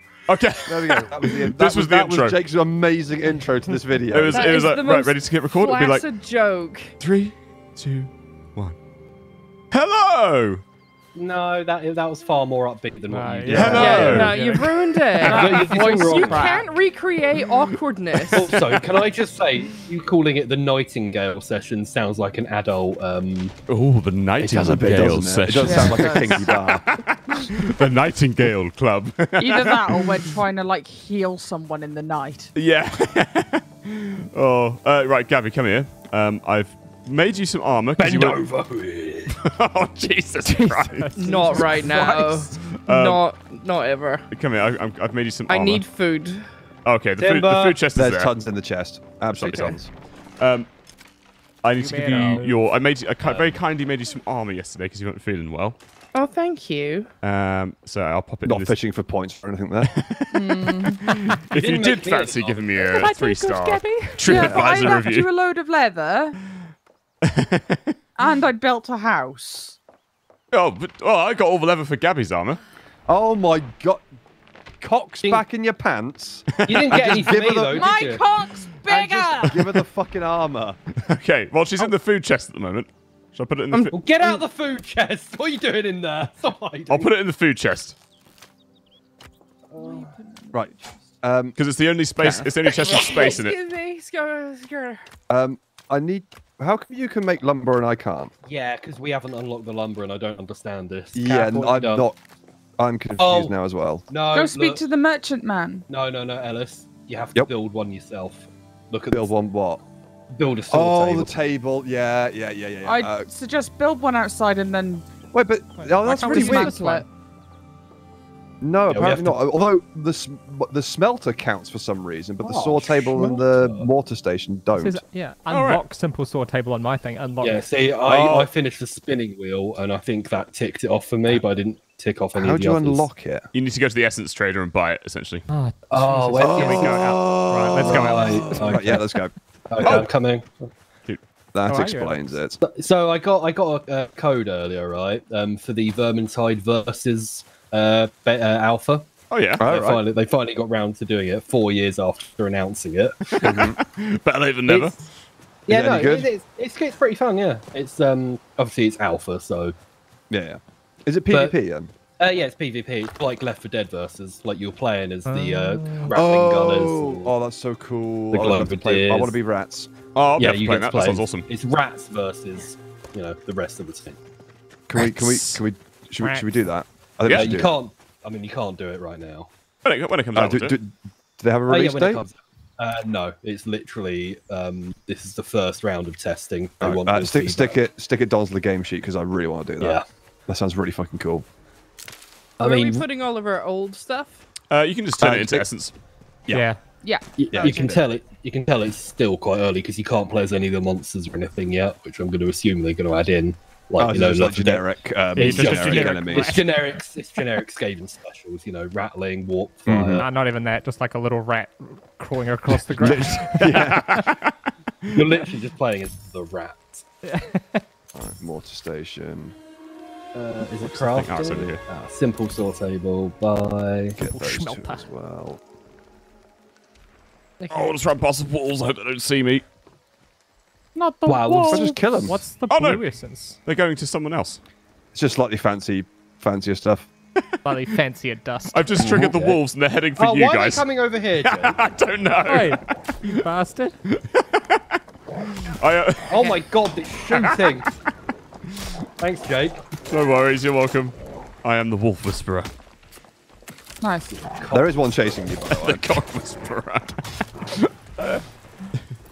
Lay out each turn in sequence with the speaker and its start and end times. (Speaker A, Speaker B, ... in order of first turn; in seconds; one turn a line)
Speaker A: 0.3-2.4
Speaker B: 0.7-4.5
Speaker A: 4.1-6.0
Speaker C: 4.3-6.9
Speaker A: 7.0-8.8
Speaker A: 9.7-10.6
Speaker D: 11.2-14.3
Speaker E: 13.1-14.9
Speaker B: 13.4-14.3
Speaker A: 13.5-14.5
Speaker C: 13.6-18.5
Speaker D: 15.2-16.6
Speaker F: 15.2-16.7
Speaker A: 17.7-19.0
Speaker D: 18.3-23.6
Speaker A: 23.7-30.3
Speaker D: 24.4-25.3
Speaker B: 24.4-26.9
Speaker F: 25.6-26.5
Speaker F: 29.4-32.5
Speaker A: 32.5-38.4
Speaker D: 38.0-39.4
Speaker A: 39.3-41.1
Speaker E: 40.5-42.1
Speaker C: 41.1-44.2
Speaker A: 42.6-43.2
Speaker A: 44.3-45.8
Speaker C: 45.5-46.5
Speaker A: 46.9-48.3
Speaker D: 47.2-47.8
Speaker B: 48.0-49.9
Speaker C: 49.4-49.8
Speaker A: 50.4-50.7
Speaker A: 51.6-55.8
Speaker E: 51.8-52.7
Speaker D: 53.2-53.5
Speaker C: 56.1-57.1
Speaker A: 57.2-58.8
Speaker B: 58.5-60.0
Speaker A: 59.8-65.3
Speaker F: 60.3-61.1
Speaker D: 61.5-63.1
Speaker E: 62.9-65.0
Speaker F: 64.3-66.4
Speaker A: 67.2-67.9
Speaker F: 68.2-69.8
Speaker A: 70.5-72.6
Speaker B: 73.1-74.1
Speaker B: 74.8-78.0
Speaker A: 76.6-77.3
Speaker D: 76.6-78.2
Speaker F: 77.7-79.7
Speaker B: 78.9-80.8
Speaker A: 81.0-84.0
Speaker C: 83.7-84.0
Speaker D: 83.9-87.1
Speaker A: 86.9-88.0
Speaker D: 89.7-90.1
Speaker F: 89.8-90.9
Speaker B: 90.5-91.6
Speaker A: 91.6-93.6
Speaker C: 92.2-95.0
Speaker B: 95.3-98.3
Speaker D: 98.5-102.0
Speaker B: 101.2-102.2
Speaker B: 102.8-104.1
Speaker D: 103.2-103.5
Speaker D: 104.1-104.8
Speaker F: 104.3-105.9
Speaker D: 105.9-109.3
Speaker B: 109.1-109.8
Speaker D: 110.3-111.3
Speaker B: 110.7-113.3
Speaker F: 112.8-115.1
Speaker B: 115.3-116.8
Speaker E: 115.8-117.1
Speaker F: 116.3-117.0
Speaker C: 116.3-116.8
Speaker B: 118.6-125.0
Speaker D: 118.9-119.4
Speaker D: 122.4-123.9
Speaker E: 124.8-127.7
Speaker A: 125.5-125.8
Speaker D: 127.4-133.1
Speaker B: 128.1-128.4
Speaker B: 132.3-133.4
Speaker A: 133.5-135.5
Speaker E: 135.5-139.0
Speaker D: 135.9-139.0
Speaker B: 136.3-140.0
Speaker D: 139.7-140.7
Speaker A: 139.8-140.1
Speaker B: 141.5-142.6
Speaker E: 141.7-142.4
Speaker D: 142.6-149.1
Speaker A: 149.3-149.7
Speaker B: 149.6-150.0
Speaker D: 149.6-153.6
Speaker A: 153.3-155.1
Speaker B: 153.4-153.8
Speaker D: 154.7-155.0
Speaker D: 155.7-159.7
Speaker B: 155.7-156.3
Speaker B: 160.3-161.9
Speaker D: 161.3-161.6
Speaker D: 162.2-167.3
Speaker E: 165.3-166.2
Speaker B: 166.1-169.9
Speaker D: 168.3-169.3
Speaker A: 170.2-171.5
Speaker D: 170.4-174.2
Speaker B: 174.9-177.7
Speaker A: 174.9-175.6
Speaker A: 177.2-177.5
Speaker D: 177.3-179.5
Speaker A: 179.8-180.8
Speaker B: 180.3-182.2
Speaker D: 181.7-187.8
Speaker B: 186.8-191.5
Speaker D: 189.8-190.1
Speaker D: 192.6-193.1
Speaker C: 192.6-194.4
Speaker A: 194.7-195.9
Speaker B: 195.2-195.7
Speaker E: 196.5-196.8
Speaker F: 197.0-197.9
Speaker B: 197.4-198.1
Speaker D: 197.5-204.8
Speaker B: 204.0-206.6
Speaker E: 205.3-207.0
Speaker D: 205.4-210.3
Speaker B: 209.9-210.3
Speaker E: 210.0-214.2
Speaker B: 213.0-214.2
Speaker A: 213.6-215.2
Speaker D: 215.1-217.0
Speaker E: 217.3-217.8
Speaker B: 218.1-219.6
Speaker D: 220.3-224.2
Speaker A: 220.8-221.8
Speaker B: 224.2-225.6
Speaker E: 224.2-225.1
Speaker C: 227.7-228.0
Speaker A: 227.7-229.6
Speaker F: 230.9-232.1
Speaker D: 231.3-232.3
Speaker B: 231.7-232.4
Speaker E: 232.2-233.6
Speaker A: 232.7-233.0
Speaker A: 233.7-234.6
Speaker B: 235.1-237.1
Speaker E: 237.7-239.0
Speaker A: 238.7-240.8
Speaker D: 239.0-239.6
Speaker D: 240.2-241.8
Speaker A: 241.4-243.4
Speaker E: 242.5-244.0
Speaker A: 244.1-246.6
Speaker D: 246.3-247.9
Speaker A: 247.2-247.7
Speaker D: 249.2-249.8
Speaker A: 250.1-252.7
Speaker F: 254.0-254.4
Speaker D: 254.4-255.4
Speaker B: 254.7-256.1
Speaker A: 255.7-258.3